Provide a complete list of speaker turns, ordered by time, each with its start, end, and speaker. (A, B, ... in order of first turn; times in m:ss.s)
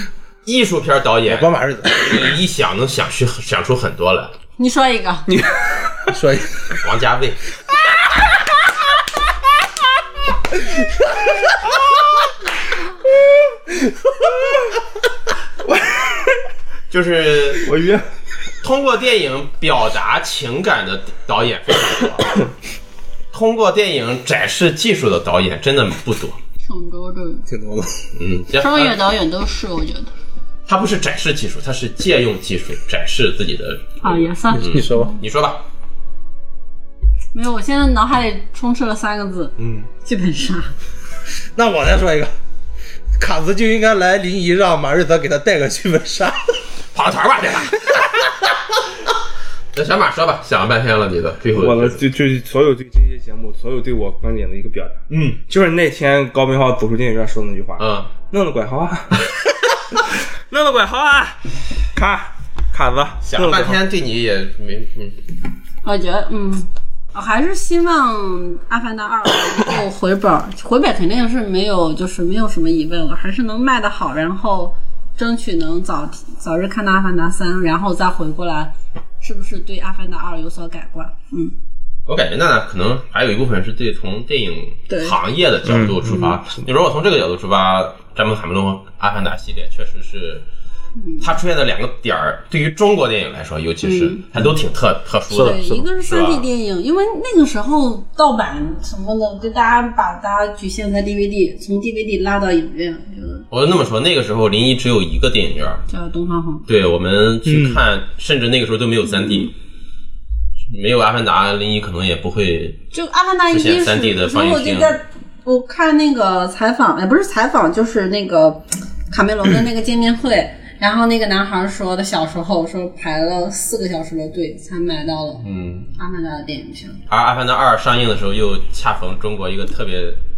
0:00.4-0:04.3 A
0:01.3-0:02.3 B
0:04.6-0:05.3 C
0:05.3-0:06.2 D
0:06.1-0:06.8 B
0:06.8-0:07.4 A
0:10.8-0:11.3 B
0:15.7-0:16.4 D
0:16.9-0:17.7 A
0:17.6-0:18.1 D
0:18.6-0:22.4 A
0:23.3-0:26.4 A
0:26.6-0:27.5 C
0:27.5-0:28.1 B
0:28.2-0:29.0 A
0:28.6-0:30.1 C
0:30.7-0:35.6 A
0:34.0-0:35.2 C
0:34.5-0:35.1 B
0:37.3-0:40.7 C
0:39.6-0:39.9 A
0:41.5-0:42.3 B
0:43.2-0:46.5 B
0:46.9-0:48.1 A
0:49.7-0:52.0 A
0:51.6-0:59.2 D
0:55.1-0:55.4 A
0:57.8-0:58.1 A
1:00.5-1:01.4 D
1:01.9-1:03.8 D
1:03.2-1:05.2 A
1:05.8-1:21.5 C
1:22.1-1:30.4 A
1:24.9-1:25.2 C
1:25.6-1:26.3 D
1:31.0-1:31.3 C
1:31.2-1:36.4 A
1:33.8-1:34.3 C
1:35.3-1:43.4 C
1:35.3-1:35.6 D
1:43.5-1:45.8 A
1:45.9-1:46.7 C
1:46.7-1:49.5 A
1:47.4-1:47.8 B
1:50.7-1:52.8 A
1:52.9-2:05.4 C
1:53.5-1:54.9 A
2:05.4-2:05.9 A
2:05.9-2:07.0 C
2:07.1-2:10.2 A